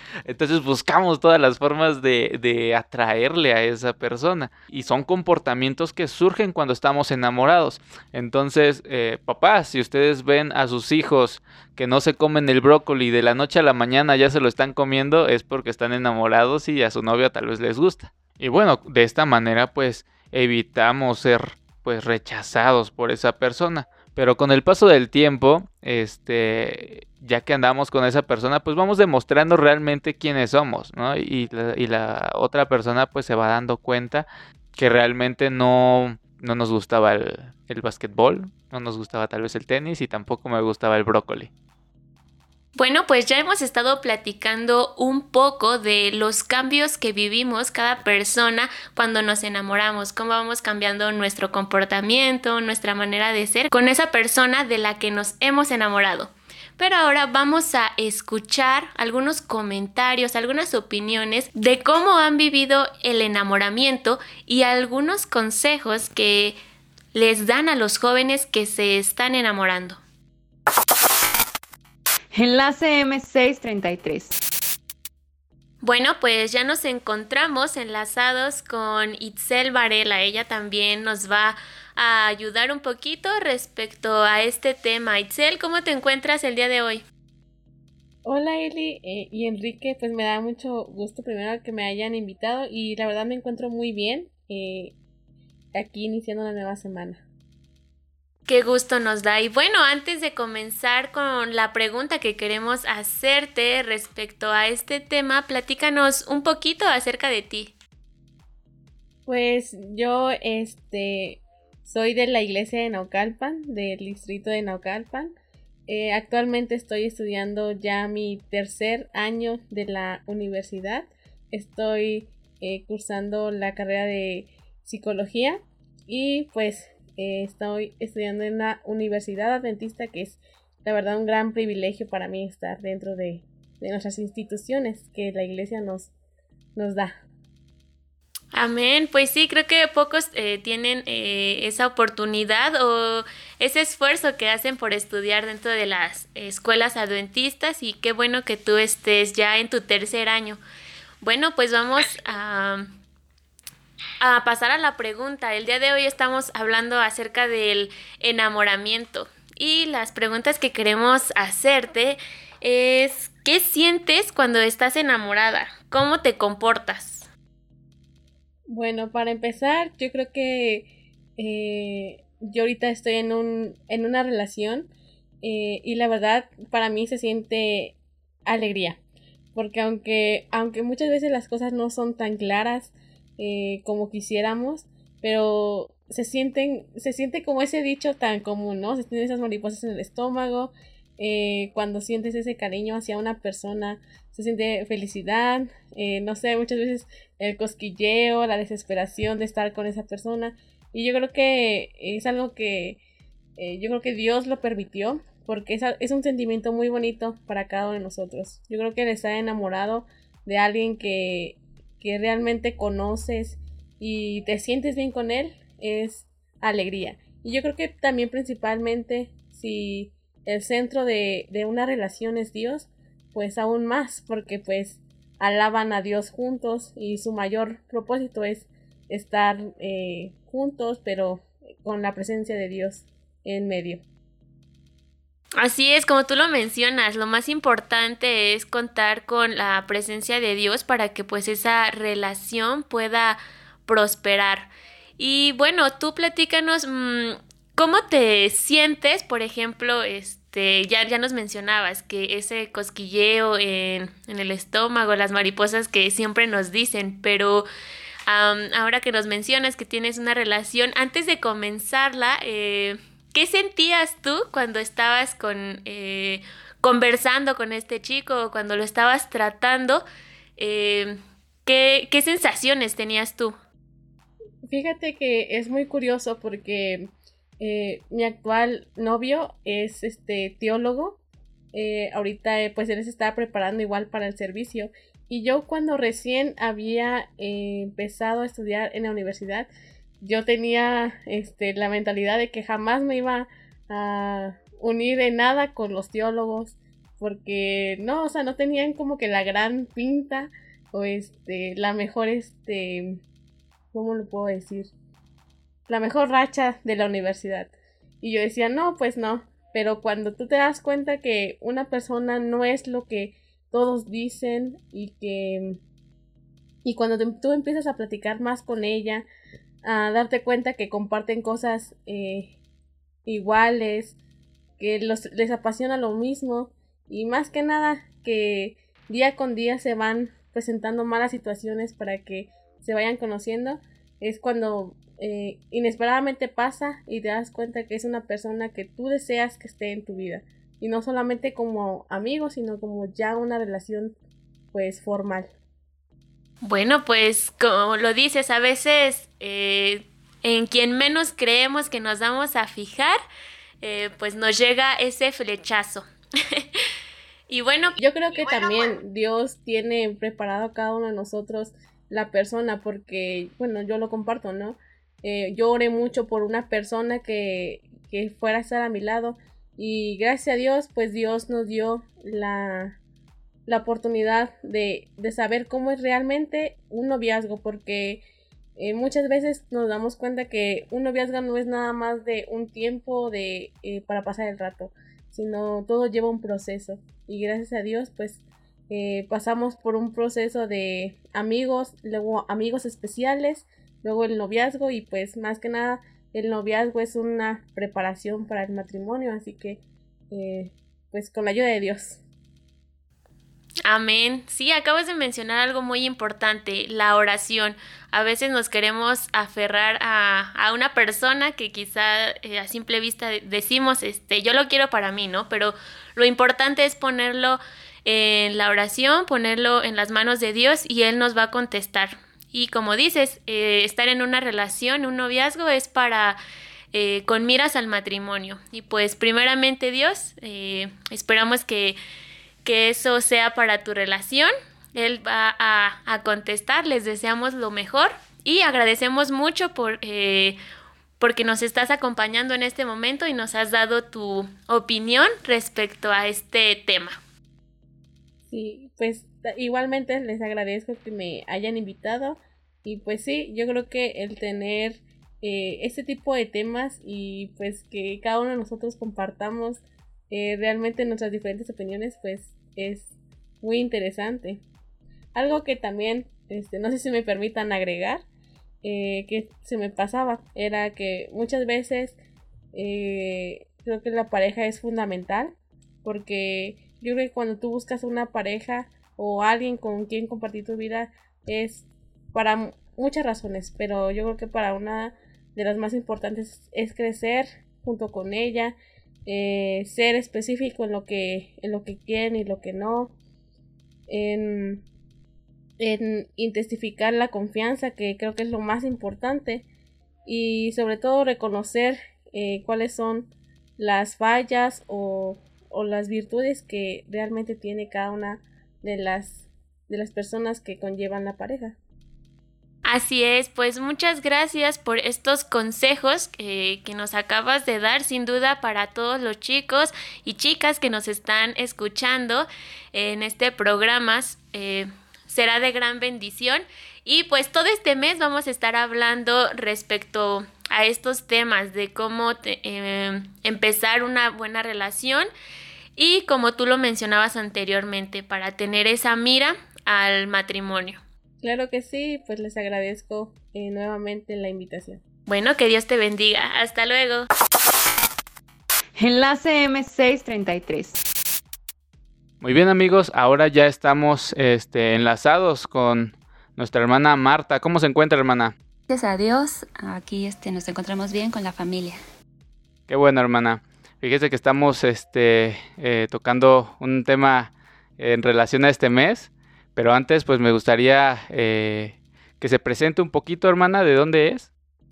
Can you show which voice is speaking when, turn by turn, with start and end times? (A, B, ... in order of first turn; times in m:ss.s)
0:00.2-0:41.5 A
0:42.8-1:06.6 B
1:07.1-1:10.0 B
1:12.3-1:14.4 C
1:15.8-1:27.0 B
1:28.2-1:34.9 D
1:35.7-1:37.2 D
1:38.5-1:47.7 B
1:49.2-1:55.3 D
1:55.9-2:16.1 D
2:16.8-2:17.1 D
2:18.5-2:30.6 B
2:31.2-2:32.9 B
2:34.2-2:47.3 B
2:48.7-2:54.9 D
2:55.4-2:58.0 D
2:58.5-2:59.0 D
2:59.5-3:23.0 D
3:23.6-3:54.0 D
3:55.6-4:17.7 B
4:18.3-4:30.0 B
4:30.6-4:33.5 B
4:34.6-4:41.2 D
4:41.7-4:49.7 D
4:50.2-5:03.2 D
5:03.9-5:04.9 D
5:05.9-5:15.8 D
5:16.8-5:19.2 D
5:19.8-5:22.5 D
5:23.2-5:24.2 D
5:24.8-5:44.1 D
5:44.7-5:45.5 D
5:46.6-5:53.2 B
5:53.8-5:56.6 B
5:57.5-5:58.0 B
5:58.0-6:13.0 D
6:13.6-6:18.2 D
6:18.8-6:42.2 D
6:43.8-7:06.4 B
7:06.9-7:12.0 B
7:12.6-7:20.6 B
7:21.2-7:27.2 B
7:28.5-7:44.6 D
7:45.3-7:48.2 D
7:48.8-7:52.2 D
7:52.7-8:13.1 D
8:14.1-8:14.8 D
8:15.8-8:19.6 D
8:20.2-8:31.8 D
8:32.8-8:55.3 B
8:56.0-9:01.0 B
9:01.4-9:05.0 D
9:05.3-9:07.3 B
9:09.0-9:11.0 C
9:12.4-9:18.6 A
9:18.9-9:22.0 E
9:22.9-9:34.5 A